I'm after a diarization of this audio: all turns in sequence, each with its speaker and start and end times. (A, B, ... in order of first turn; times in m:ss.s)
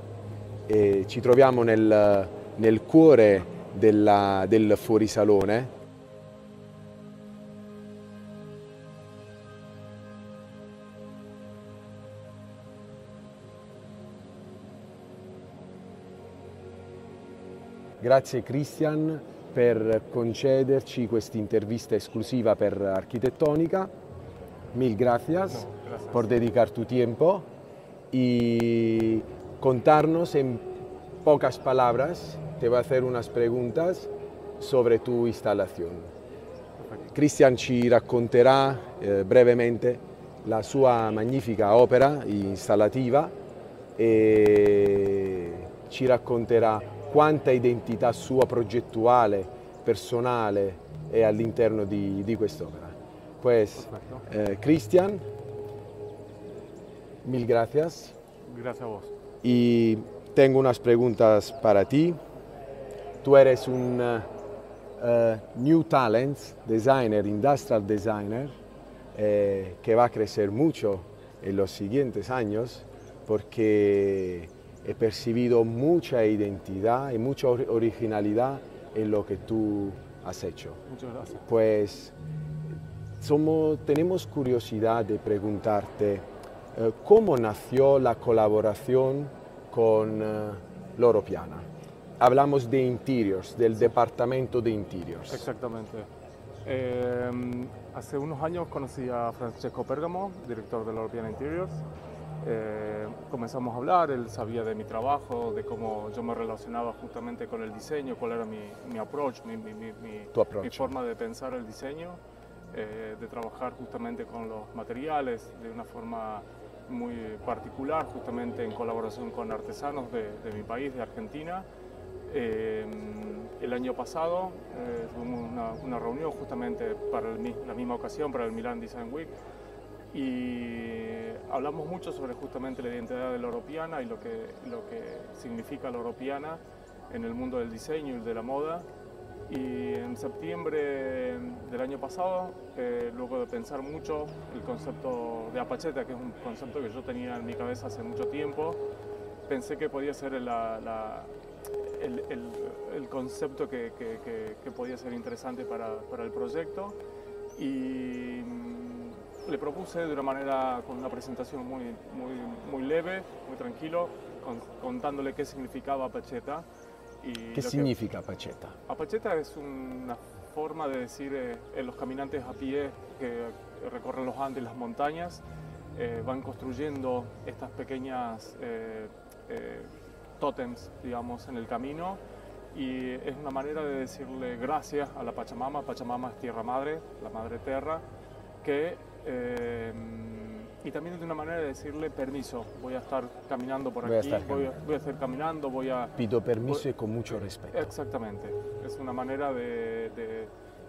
0:00.7-0:05.7 A
0:18.0-0:23.9 A
0:24.7-0:27.4 A
0:25.5-0:26.3 B
0:28.1-0:30.7 A
0:31.2-0:36.1 A
0:36.8-0:37.1 B
0:37.1-0:43.3 A
0:44.0-0:55.2 A
0:53.8-0:54.2 B
0:57.2-0:58.2 A
0:58.4-0:59.1 B
0:59.4-1:02.2 A
1:03.2-1:04.3 A
1:05.0-1:08.5 A
1:09.1-1:20.8 A
1:20.9-1:21.4 B
1:21.4-1:22.1 A
1:23.2-1:31.6 A
1:32.2-1:35.5 A
1:35.3-1:36.1 B
1:36.6-1:41.8 B
1:42.4-1:52.2 B
1:50.3-1:51.0 A
1:52.7-2:01.6 B
2:02.3-2:09.3 B
2:10.1-2:18.9 B
2:19.5-2:28.8 B
2:29.4-2:37.0 B
2:37.6-2:46.6 B
2:47.2-2:47.9 B
2:47.5-2:48.8 A
2:48.9-2:55.4 B
2:55.9-3:02.2 B
3:02.7-3:08.0 B
3:08.6-3:20.5 B
3:14.0-3:14.8 A
3:16.2-3:17.9 A